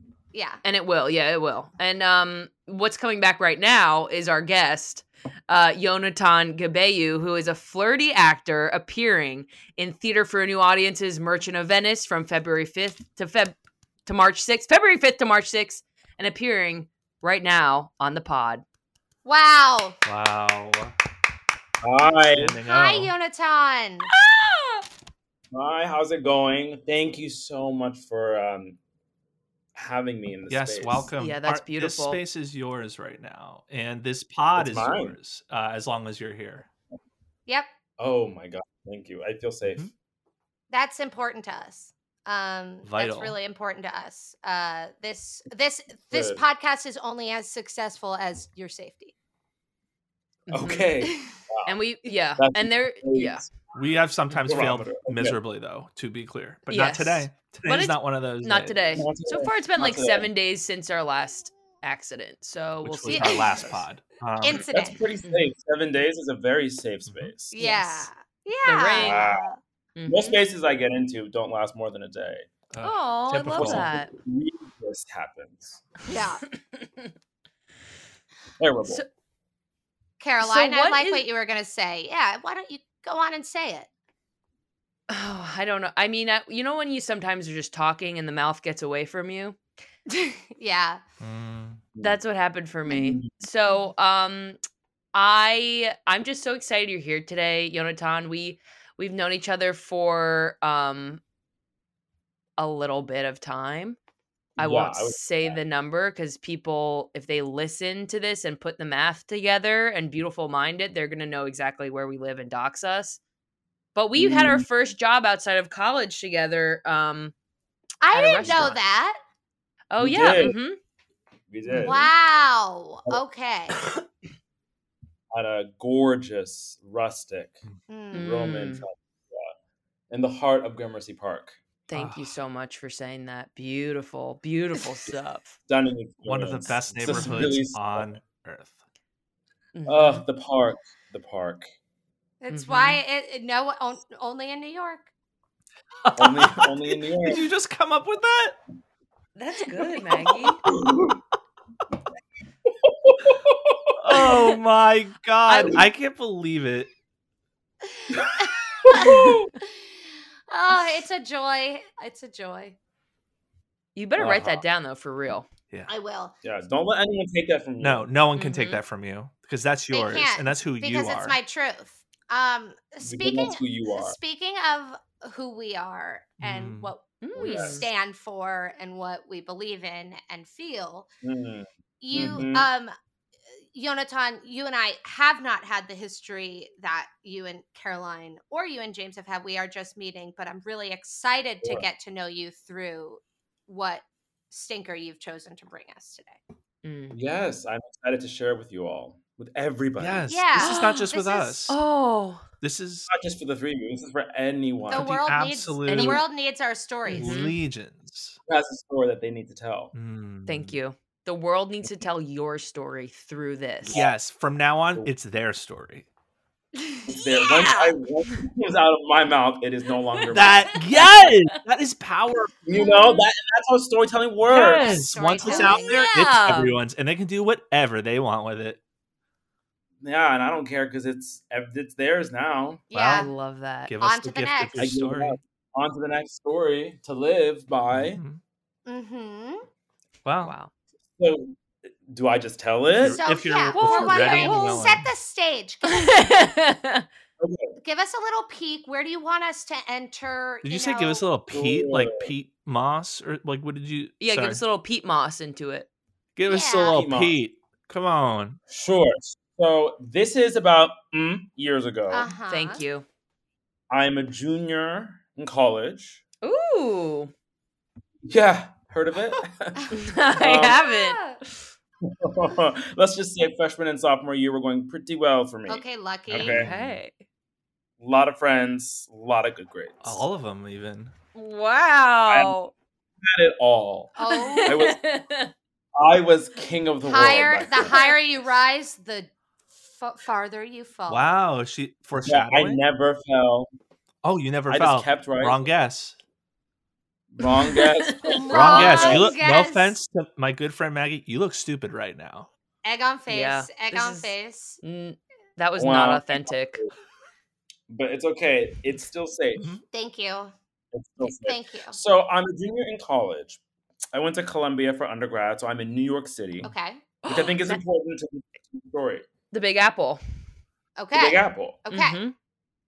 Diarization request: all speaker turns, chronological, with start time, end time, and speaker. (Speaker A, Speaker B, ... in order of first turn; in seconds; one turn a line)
Speaker A: 0.3-0.6
Speaker B: 0.6-18.6
Speaker A: 19.2-20.0
Speaker C: 20.1-21.0
Speaker D: 21.8-22.6
Speaker C: 22.4-23.1
Speaker A: 22.6-24.1
Speaker B: 24.1-24.9
Speaker D: 25.5-28.8
Speaker D: 29.8-31.1
Speaker C: 30.5-36.7
Speaker B: 31.2-32.2
Speaker D: 34.6-35.2
Speaker D: 38.0-39.9
Speaker A: 40.7-49.1
Speaker C: 42.8-43.4
Speaker D: 46.1-46.4
Speaker B: 50.5-50.9
Speaker D: 50.5-51.7
Speaker A: 51.0-51.3
Speaker B: 51.7-53.5
Speaker D: 52.4-53.5
Speaker C: 53.7-58.9
Speaker D: 54.4-55.4
Speaker B: 56.7-63.7
Speaker D: 58.9-60.3
Speaker C: 62.8-64.7
Speaker A: 63.1-63.7
Speaker A: 64.4-65.0
Speaker D: 64.7-67.6
Speaker C: 67.1-67.3
Speaker A: 67.5-69.6
Speaker B: 67.6-68.1
Speaker B: 68.7-69.2
Speaker D: 69.0-69.5
Speaker B: 70.0-70.4
Speaker D: 70.1-72.5
Speaker C: 72.7-73.9
Speaker B: 72.8-74.1
Speaker D: 73.5-75.8
Speaker A: 76.1-76.4
Speaker B: 76.5-77.1
Speaker D: 78.6-79.0
Speaker A: 80.2-83.9
Speaker B: 80.4-81.2
Speaker B: 85.1-89.6
Speaker A: 90.1-91.0
Speaker C: 91.2-91.8
Speaker B: 92.0-94.6
Speaker D: 92.9-93.3
Speaker B: 95.1-101.2
Speaker B: 102.6-104.0
Speaker D: 104.6-105.6
Speaker B: 104.6-113.2
Speaker B: 114.0-117.3
Speaker D: 114.2-114.7
Speaker A: 118.0-119.2
Speaker B: 118.1-118.8
Speaker B: 119.9-120.8
Speaker D: 120.0-120.5
Speaker D: 121.5-122.1
Speaker B: 121.7-122.0
Speaker A: 121.8-123.8
Speaker D: 125.3-127.6
Speaker A: 127.9-128.3
Speaker B: 128.1-128.8
Speaker D: 128.1-129.5
Speaker D: 130.1-131.6
Speaker B: 131.9-135.6
Speaker C: 131.9-132.4
Speaker D: 135.7-138.2
Speaker C: 136.3-138.8
Speaker B: 137.1-137.5
Speaker B: 139.7-140.2
Speaker D: 139.9-141.7
Speaker A: 142.4-145.1
Speaker B: 142.5-143.0
Speaker B: 146.0-146.7
Speaker D: 146.2-147.4
Speaker C: 147.2-148.6
Speaker B: 149.4-150.7
Speaker D: 150.7-151.2
Speaker D: 152.7-154.3
Speaker C: 154.0-156.9
Speaker B: 154.1-154.5
Speaker B: 155.5-155.8
Speaker A: 157.9-159.7
Speaker D: 158.1-159.5
Speaker B: 158.9-159.4
Speaker A: 160.5-162.8
Speaker B: 163.9-165.5
Speaker C: 164.2-164.6
Speaker A: 165.9-166.3
Speaker D: 166.4-168.1
Speaker C: 167.8-171.4
Speaker B: 168.4-168.8
Speaker A: 169.9-181.1
Speaker D: 173.0-174.2
Speaker C: 176.4-176.9
Speaker B: 177.2-177.9
Speaker D: 177.4-177.8
Speaker D: 181.2-182.7
Speaker A: 182.0-182.9
Speaker A: 183.7-196.4
Speaker B: 196.8-197.2
Speaker D: 197.1-200.3
Speaker C: 200.0-201.8
Speaker A: 200.3-201.6
Speaker B: 200.6-201.1
Speaker B: 201.7-202.4
Speaker C: 202.6-203.1
Speaker D: 203.1-205.1
Speaker A: 204.9-207.3
Speaker C: 204.9-206.2
Speaker B: 205.9-206.2
Speaker B: 207.1-207.6
Speaker C: 207.2-208.4
Speaker D: 208.5-209.9
Speaker C: 209.9-210.8
Speaker B: 210.5-214.0
Speaker D: 213.9-214.1
Speaker C: 213.9-216.1
Speaker A: 216.8-217.9
Speaker D: 217.1-221.1
Speaker B: 220.2-221.3
Speaker C: 220.3-222.5
Speaker D: 222.7-224.9
Speaker A: 222.7-223.2
Speaker B: 224.5-226.8
Speaker C: 224.6-228.8
Speaker A: 224.8-226.1
Speaker D: 230.0-232.9
Speaker A: 232.9-233.3
Speaker C: 232.9-233.2
Speaker B: 233.1-233.9
Speaker C: 233.9-235.4
Speaker A: 234.0-234.9
Speaker D: 234.8-238.2
Speaker C: 237.9-238.4
Speaker A: 238.9-239.6
Speaker C: 240.2-240.6
Speaker B: 240.4-240.7
Speaker D: 241.2-243.2
Speaker C: 243.0-245.1
Speaker A: 243.0-246.1
Speaker B: 243.7-244.9
Speaker B: 245.8-247.1
Speaker D: 247.4-247.8
Speaker A: 247.8-251.2
Speaker C: 250.6-254.6
Speaker D: 251.5-252.3
Speaker B: 254.2-255.9
Speaker C: 256.4-258.6
Speaker A: 256.5-257.0
Speaker D: 256.9-257.4
Speaker D: 258.7-262.3
Speaker A: 262.1-262.8
Speaker B: 262.5-263.1
Speaker D: 263.9-266.2
Speaker B: 266.4-267.3
Speaker D: 268.3-270.8
Speaker B: 269.9-271.6
Speaker A: 270.5-271.4
Speaker D: 272.0-276.7
Speaker A: 275.7-276.6
Speaker B: 276.4-277.2
Speaker C: 276.6-277.0
Speaker D: 278.0-280.2
Speaker C: 280.0-281.1
Speaker B: 281.3-282.7
Speaker D: 282.3-282.6
Speaker D: 283.2-285.0
Speaker A: 284.2-284.8
Speaker B: 284.3-285.5
Speaker D: 286.0-288.0
Speaker A: 287.0-289.3
Speaker B: 287.7-288.2
Speaker A: 289.9-291.4
Speaker C: 291.1-292.8
Speaker D: 292.2-293.7
Speaker C: 294.2-296.2
Speaker D: 294.7-295.6
Speaker D: 297.3-299.3
Speaker B: 297.4-299.1
Speaker A: 298.3-299.9
Speaker C: 298.5-302.5
Speaker A: 302.8-304.8
Speaker B: 303.3-306.8
Speaker D: 305.8-306.9
Speaker D: 307.9-309.7
Speaker A: 309.9-310.5
Speaker D: 310.9-313.6
Speaker A: 311.2-312.0
Speaker D: 314.1-316.7
Speaker A: 316.6-317.0
Speaker B: 317.2-317.8
Speaker D: 317.3-319.3
Speaker B: 319.5-320.2
Speaker A: 321.0-322.2
Speaker D: 321.1-321.8
Speaker B: 321.9-322.3